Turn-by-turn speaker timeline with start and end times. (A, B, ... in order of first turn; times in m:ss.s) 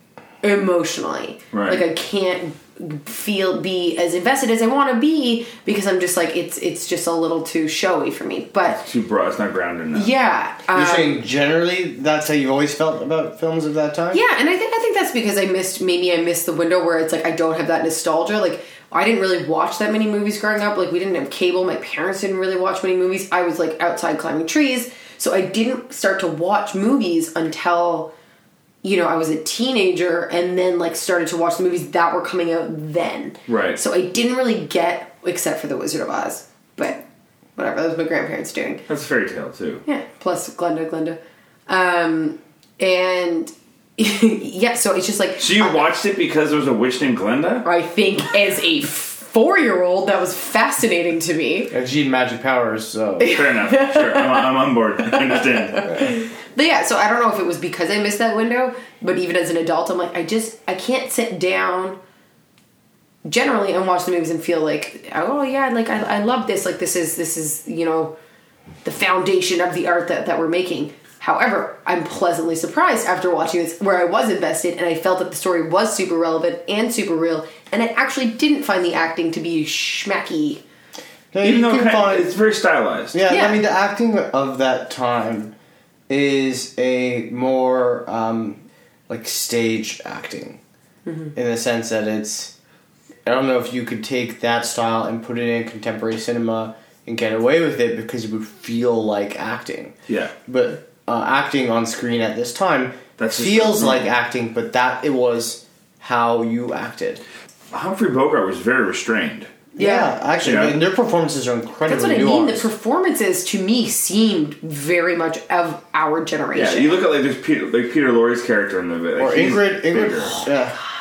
0:00.4-0:08.9 A
0:01.5-0:01.8 B
0:08.7-0:10.1 B
0:09.9-0:11.2 A
0:10.7-0:14.2 C
0:14.1-0:28.1 A
0:28.8-0:37.0 A
0:33.5-0:33.8 B
0:37.6-0:38.8 A
0:38.9-0:39.8 B
0:39.8-0:45.9 A
0:45.4-0:47.7 B
0:47.6-0:51.7 A
0:51.7-0:53.4 C
0:53.2-0:54.5 A
0:53.2-0:56.0 B
0:55.1-1:02.0 A
1:03.2-1:08.2 A
1:08.8-1:20.6 A
1:21.3-1:22.3 C
1:21.4-1:23.2 B
1:23.1-1:25.5 C
1:23.3-1:23.6 A
1:26.1-1:30.6 C
1:31.1-1:31.3 A
1:31.4-1:32.5 C
1:33.3-1:40.0 C
1:40.1-1:40.3 B
1:40.5-1:47.2 C
1:43.2-1:44.1 B
1:47.7-1:49.5 B
1:49.8-1:50.1 A
1:49.8-1:52.7 C
1:50.4-1:50.8 B
1:51.9-1:57.0 A
1:56.5-2:00.4 B
1:59.2-2:00.8 C